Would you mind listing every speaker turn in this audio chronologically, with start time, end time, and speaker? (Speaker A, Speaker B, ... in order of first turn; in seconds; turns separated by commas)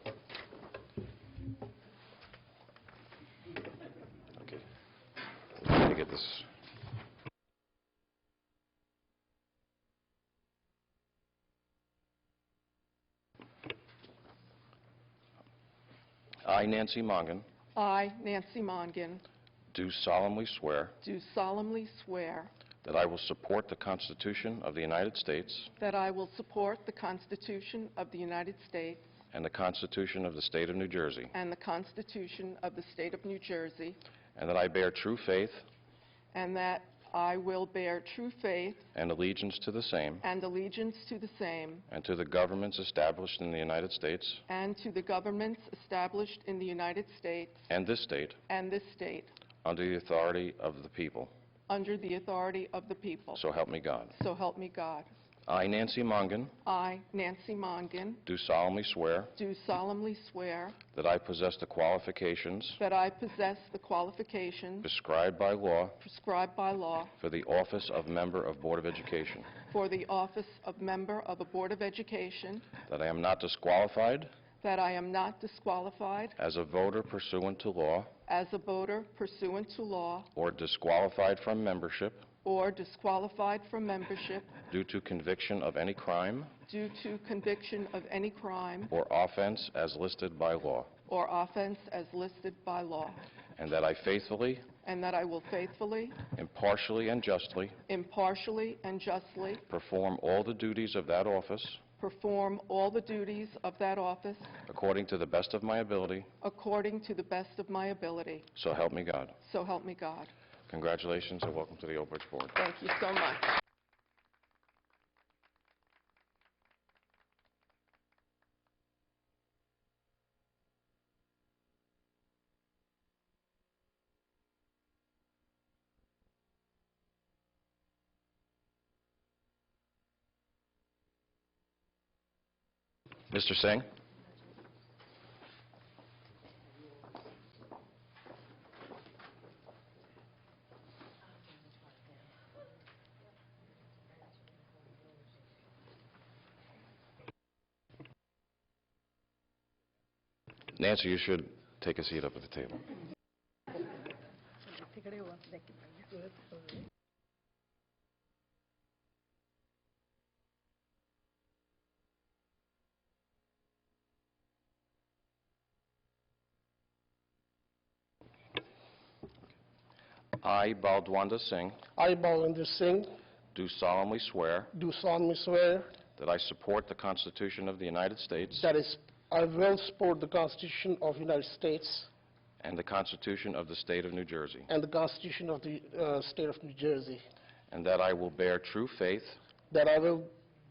Speaker A: 4.4-4.6, Speaker A: 5.6-6.5, Speaker A: 16.4-17.5, Speaker B: 17.8-19.2, Speaker A: 19.7-20.9, Speaker B: 21.0-22.5, Speaker A: 22.8-25.7, Speaker B: 25.8-29.1, Speaker A: 29.3-31.3, Speaker B: 31.3-34.0, Speaker A: 34.4-35.6, Speaker B: 36.3-38.8, Speaker A: 39.0-40.3, Speaker B: 40.2-41.9, Speaker A: 41.9-44.4, Speaker B: 44.5-47.7, Speaker A: 47.7-48.4, Speaker B: 48.5-49.3, Speaker A: 49.6-51.3, Speaker B: 51.7-53.4, Speaker A: 53.4-54.2, Speaker B: 54.1-55.1, Speaker A: 55.5-56.5, Speaker B: 56.6-58.2, Speaker A: 58.3-59.3, Speaker B: 59.4-60.8, Speaker A: 60.9-62.8, Speaker B: 62.8-64.9, Speaker A: 64.8-66.0, Speaker B: 66.0-67.1, Speaker A: 67.2-69.5, Speaker B: 69.7-72.7, Speaker A: 72.9-74.3, Speaker B: 74.6-76.4, Speaker A: 76.4-78.1, Speaker B: 78.3-80.3, Speaker A: 80.3-82.3, Speaker B: 82.4-84.5, Speaker A: 84.7-86.5, Speaker B: 86.7-88.9, Speaker A: 88.9-90.9, Speaker B: 91.1-93.2, Speaker A: 93.6-94.7, Speaker B: 94.8-96.2, Speaker A: 96.3-97.8, Speaker B: 97.9-99.6, Speaker A: 99.7-101.8, Speaker B: 102.0-104.5, Speaker A: 104.7-106.3, Speaker B: 106.4-108.5, Speaker A: 108.5-109.3, Speaker B: 109.4-110.3, Speaker A: 110.7-112.6, Speaker B: 112.6-113.6, Speaker A: 133.3-133.9, Speaker A: 150.8-152.8, Speaker A: 170.4-171.8, Speaker C: 172.0-173.1, Speaker A: 173.5-174.7, Speaker C: 174.7-175.9, Speaker A: 176.2-178.7, Speaker C: 178.6-182.1, Speaker A: 182.6-184.7, Speaker C: 184.7-187.2, Speaker A: 187.7-189.4, Speaker C: 189.7-190.3